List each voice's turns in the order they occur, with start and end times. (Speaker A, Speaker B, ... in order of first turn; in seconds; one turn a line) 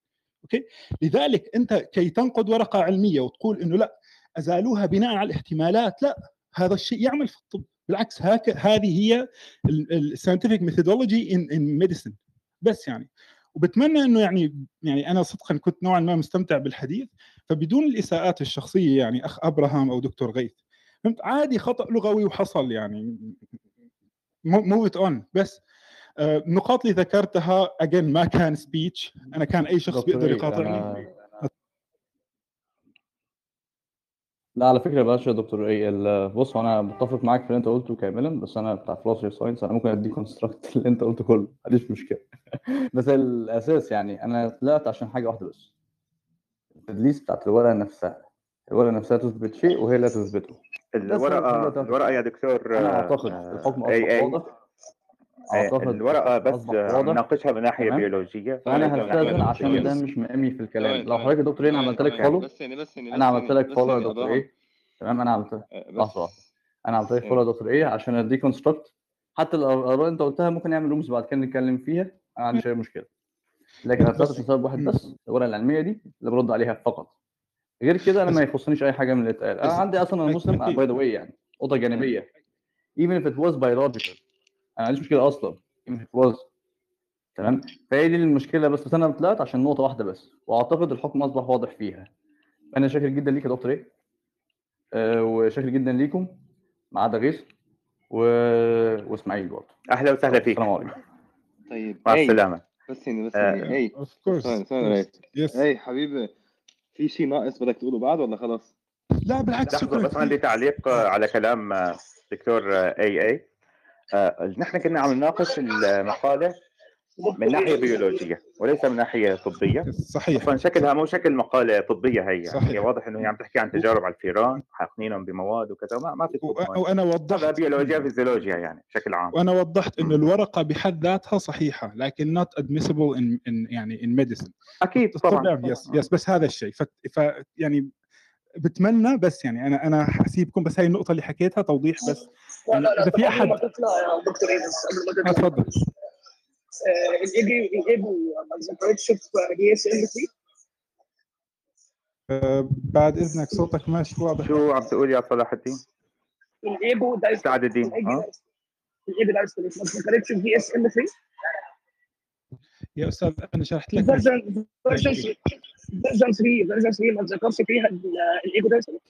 Speaker A: 0.4-23.3
Speaker A: 24.5-25.6
Speaker A: 26.2-31.5
Speaker B: 29.9-31.1
Speaker B: 34.6-42.2
Speaker B: 42.9-45.7
Speaker B: 46.9-52.0
Speaker C: 51.0-54.4
Speaker B: 52.8-54.5
Speaker B: 55.5-57.2
Speaker C: 55.5-60.0
Speaker B: 57.8-58.1
Speaker D: 58.6-60.0
Speaker B: 58.7-62.5
Speaker D: 60.8-64.5
Speaker B: 63.1-64.5
Speaker B: 65.0-66.3
Speaker D: 65.7-66.3
Speaker B: 66.9-73.1
Speaker B: 73.8-77.1
Speaker A: 74.1-75.0
Speaker B: 77.8-82.3
Speaker A: 79.6-80.8
Speaker B: 83.0-84.2
Speaker B: 84.8-86.5
Speaker B: 87.4-92.1
Speaker B: 92.7-93.9
Speaker B: 94.9-96.3
Speaker B: 96.9-97.5
Speaker B: 98.1-99.8
Speaker C: 99.9-100.7
Speaker B: 100.3-100.9
Speaker D: 101.7-106.3
Speaker C: 102.1-102.7
Speaker A: 104.0-105.6
Speaker D: 107.0-108.7
Speaker A: 109.3-110.4
Speaker C: 109.7-113.4
Speaker C: 114.1-116.6
Speaker E: 117.2-118.2
Speaker C: 117.4-129.4
Speaker A: 119.9-120.5
Speaker A: 122.5-122.8
Speaker A: 126.4-128.1
Speaker A: 129.3-134.5
Speaker C: 134.9-136.0
Speaker A: 135.1-137.9
Speaker A: 138.6-143.6
Speaker E: 142.0-145.6
Speaker A: 145.2-145.7
Speaker E: 146.8-150.3
Speaker A: 152.3-154.6
Speaker C: 154.4-155.8
Speaker E: 156.6-158.4
Speaker C: 157.4-158.2
Speaker E: 159.1-161.2
Speaker A: 163.0-164.3
Speaker E: 164.0-165.4
Speaker A: 164.9-165.3
Speaker E: 165.9-169.0